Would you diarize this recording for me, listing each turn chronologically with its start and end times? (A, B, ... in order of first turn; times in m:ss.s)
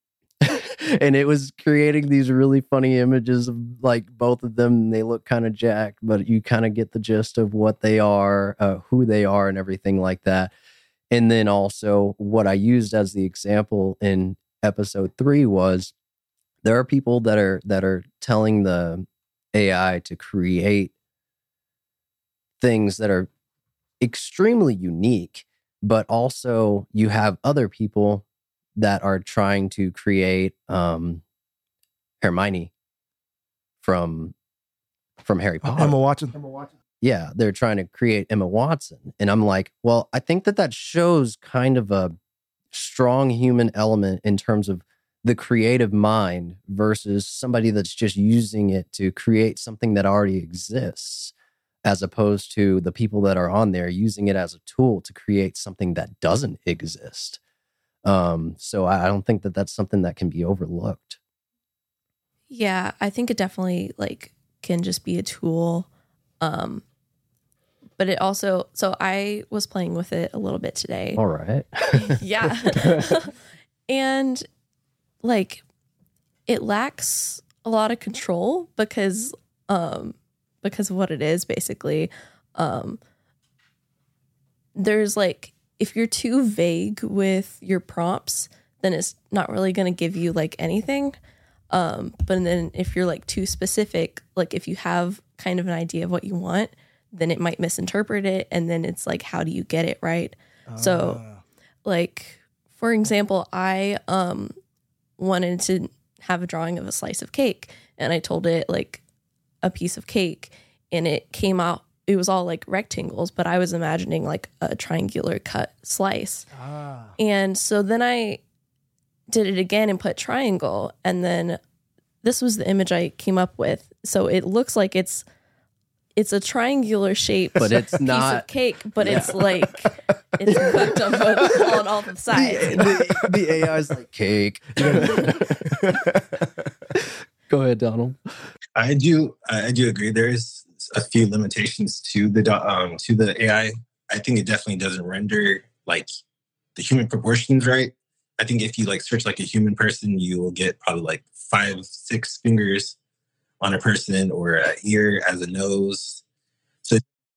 0:00.4-0:10.5 A
0:11.1-0:15.9 A
0:16.6-0:20.9 A
0:22.6-0:23.3 A
0:24.0-0:28.2 A
0:28.8-0:31.2 A
0:32.2-0:32.7 A
0:33.8-0:34.4 A
0:35.2-0:36.0 A
0:35.6-0:36.4 B
0:37.0-0:42.2 A
0:42.7-0:51.3 A
0:51.8-0:57.4 A
0:58.0-1:01.2 A
1:02.5-1:05.9 C
1:06.4-1:06.8 C
1:08.0-1:11.2 C
1:11.2-1:13.1 A
1:11.9-1:13.3 C
1:13.9-1:14.5 C
1:15.2-1:15.6 C
1:16.5-1:23.0 C
1:24.8-1:31.2 C
1:31.7-1:41.2 C
1:40.7-1:41.4 B
1:41.8-1:44.5 C
1:45.2-1:49.0 C
1:49.6-1:56.5 C
1:56.5-1:57.2 B
1:57.2-1:58.4 C
1:59.3-2:01.6 C
2:02.2-2:05.2 C
2:06.2-2:12.9 C
2:07.6-2:08.5 A
2:09.0-2:09.3 A
2:09.0-2:09.4 B
2:10.5-2:11.7 B
2:12.3-2:16.0 A
2:12.7-2:13.4 B
2:14.8-2:16.6 B
2:17.5-2:18.2 A
2:18.8-2:26.1 D
2:26.8-2:33.0 D
2:33.6-2:36.2 D